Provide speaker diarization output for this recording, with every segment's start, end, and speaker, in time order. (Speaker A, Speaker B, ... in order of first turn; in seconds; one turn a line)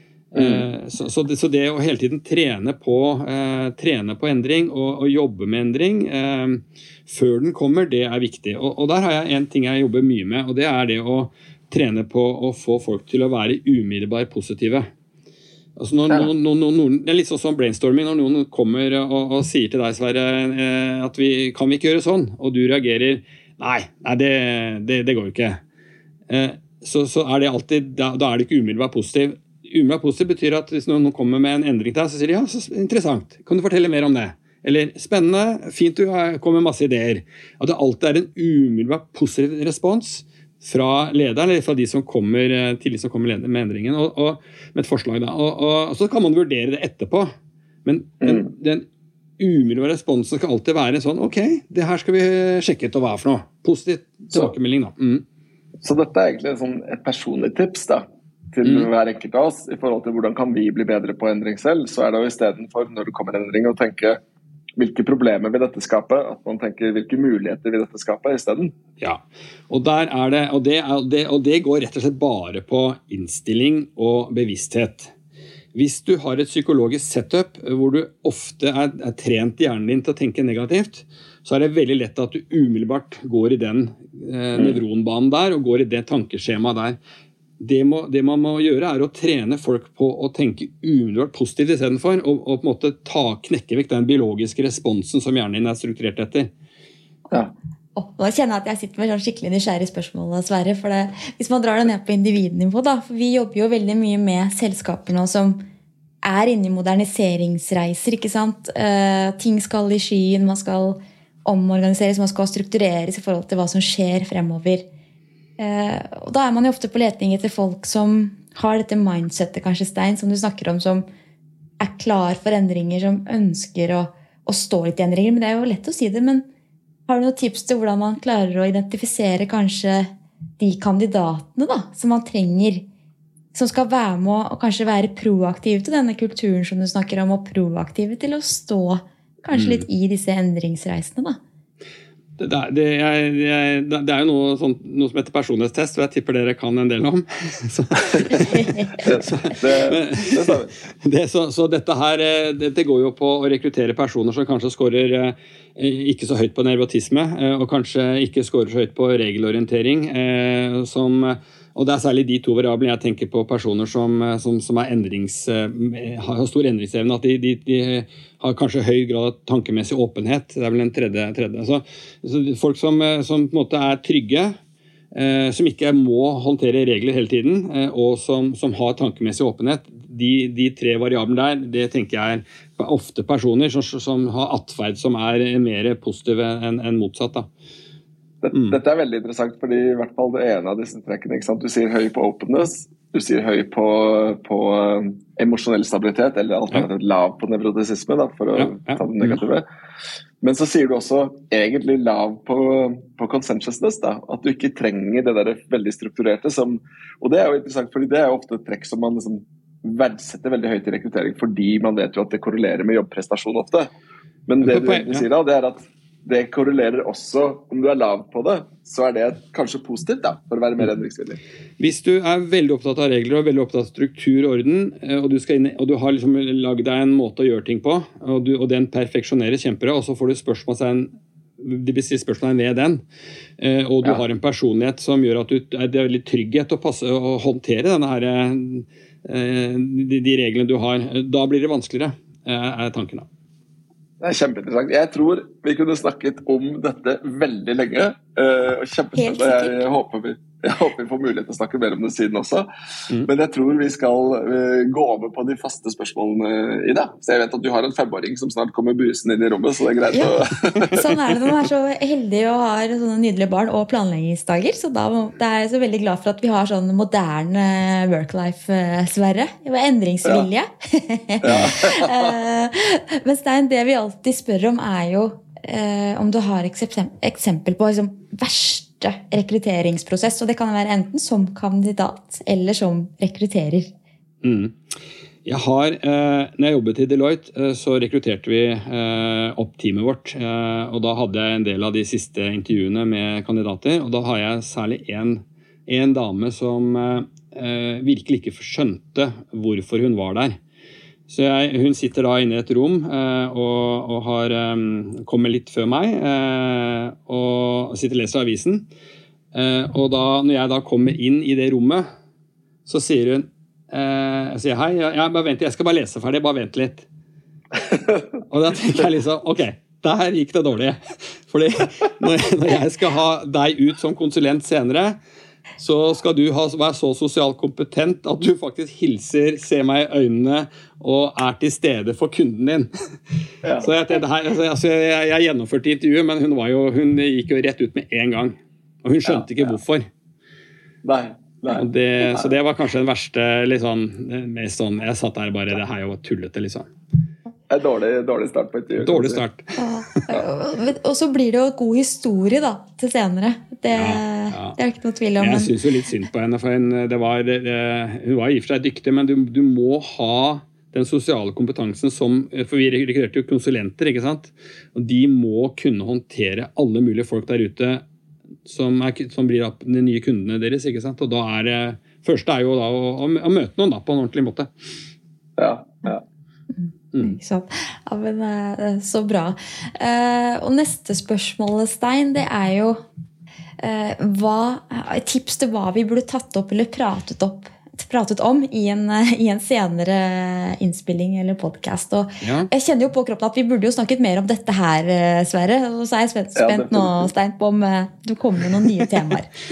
Speaker A: 0.3-14.8
Speaker B: 0.3-0.7
Speaker A: 15.8-25.6
Speaker A: 26.3-47.3
Speaker A: 47.8-48.9
Speaker A: 49.4-55.2
Speaker B: 55.8-64.2
Speaker B: 64.8-68.7
Speaker A: 69.0-75.1
Speaker A: 75.7-87.0
Speaker A: 87.6-96.5
Speaker C: 98.0-105.6
Speaker C: 106.2-114.8
Speaker C: 115.6-121.1
Speaker C: 121.8-126.5
Speaker C: 127.1-132.8
Speaker C: 133.5-141.4
Speaker A: 139.5-139.8
Speaker A: 142.4-174.5
Speaker B: 149.0-150.7
Speaker A: 175.1-187.5
Speaker B: 188.4-199.7
Speaker A: 188.5-188.8
Speaker A: 198.6-199.4
Speaker B: 200.4-213.9
Speaker B: 214.5-221.4
Speaker A: 214.6-215.2
Speaker A: 221.8-233.0
Speaker A: 233.6-243.3
Speaker B: 244.2-261.3
Speaker C: 249.2-249.8
Speaker C: 260.9-283.9
Speaker B: 271.4-272.4
Speaker A: 284.4-300.6
Speaker A: 301.3-308.9
Speaker A: 309.5-312.1
Speaker A: 312.9-317.1
Speaker A: 318.4-325.2
Speaker A: 325.8-332.9
Speaker B: 333.6-333.9
Speaker A: 333.8-340.1
Speaker B: 339.2-339.7
Speaker B: 341.0-342.5
Speaker A: 341.7-346.9
Speaker B: 347.7-349.4
Speaker A: 349.0-349.8
Speaker C: 349.8-355.7
Speaker A: 353.9-354.8
Speaker A: 355.4-368.0
Speaker A: 368.6-374.7
Speaker B: 375.6-376.2
Speaker C: 377.2-383.0
Speaker C: 383.8-399.5
Speaker A: 392.4-392.7
Speaker B: 396.6-397.3